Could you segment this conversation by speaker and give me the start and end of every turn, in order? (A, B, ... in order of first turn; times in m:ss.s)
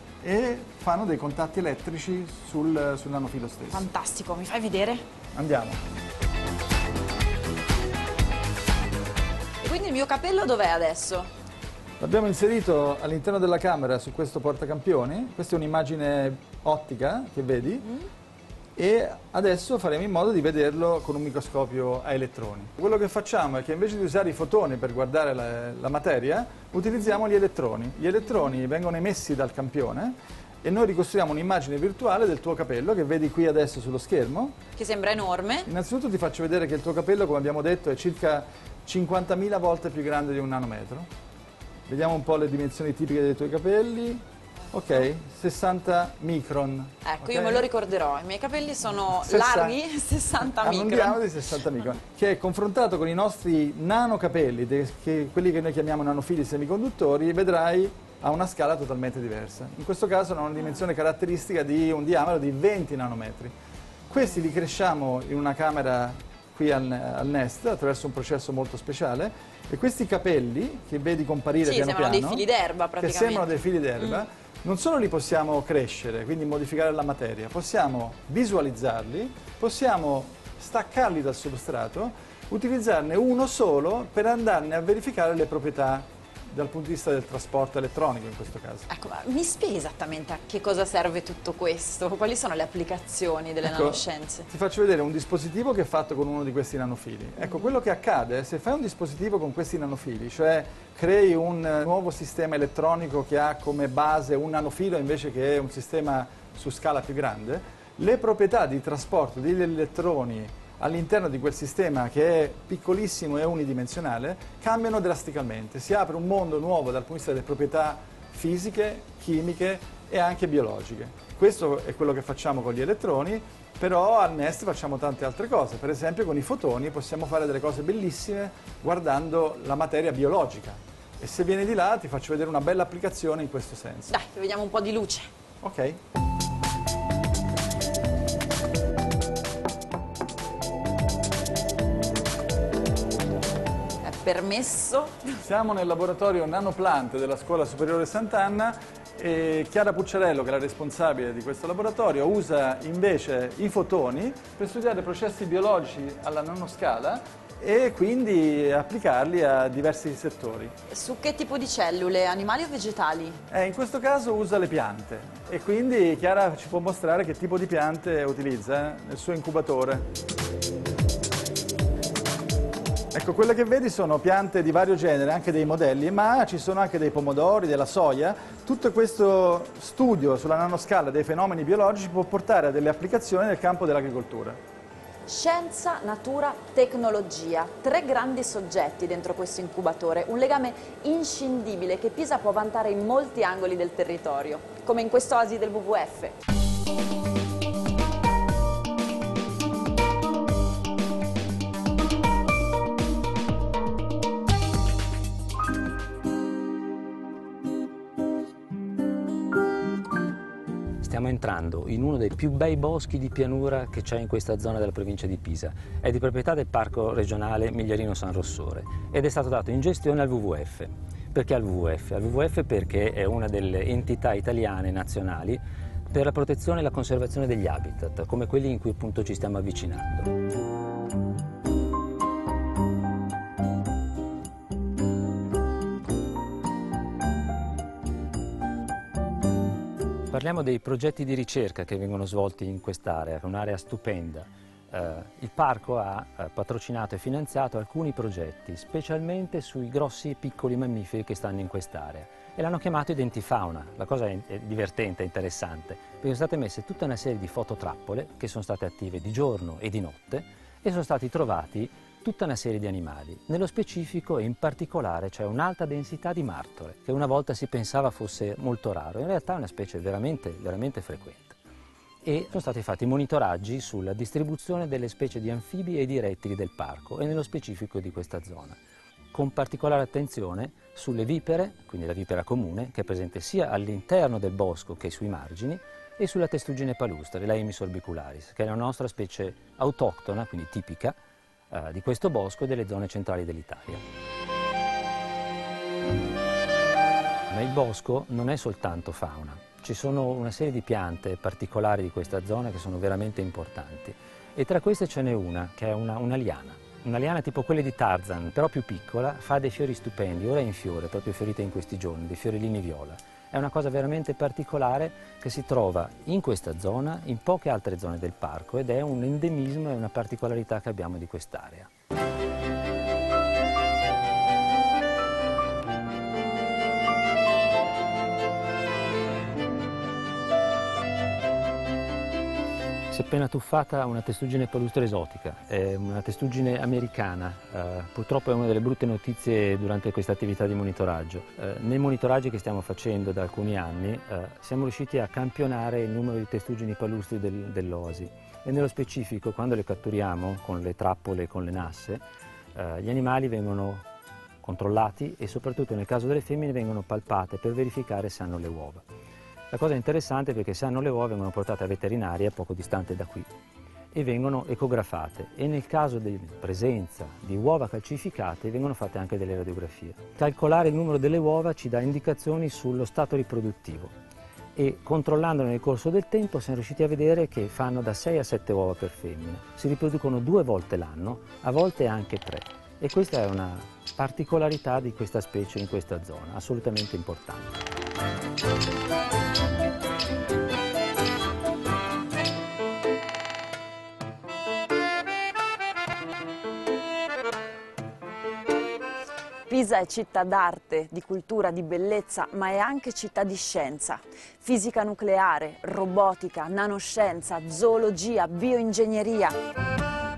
0:00.2-0:03.8 A
0:03.7-0:05.0 B
0:05.3-0:05.8 A
0:09.6-0:11.3 B
0:12.0-0:17.8 A
0:18.8-0:34.6 A
0:34.8-0:35.7 B
0:35.7-0:41.1 A
0:41.9-0:47.7 A
0:47.0-0:51.2 B
0:49.1-0:49.8 A
0:50.4-1:03.6 A
1:04.1-1:12.5 A
1:11.6-1:13.5 B
1:13.0-1:28.9 A
1:28.9-1:34.5 B
1:33.6-2:14.1 A
2:14.1-2:15.3 B
2:15.6-2:16.0 A
2:24.0-2:25.4 B
2:25.4-2:40.7 A
2:40.9-2:43.4 B
2:43.5-2:50.1 A
2:53.1-3:04.6 A
3:05.3-3:16.4 B
3:31.0-3:50.3 C
4:00.3-4:31.6 C
4:32.2-4:38.8 C
4:39.3-4:51.2 C
4:51.7-4:54.0 C
4:57.5-5:21.9 C
5:33.1-5:52.2 C
5:52.8-5:54.1 C
5:54.6-5:59.1 C
5:59.7-6:03.5 C
6:04.1-6:14.1 C
6:14.8-6:27.7 C
6:39.7-6:49.6 B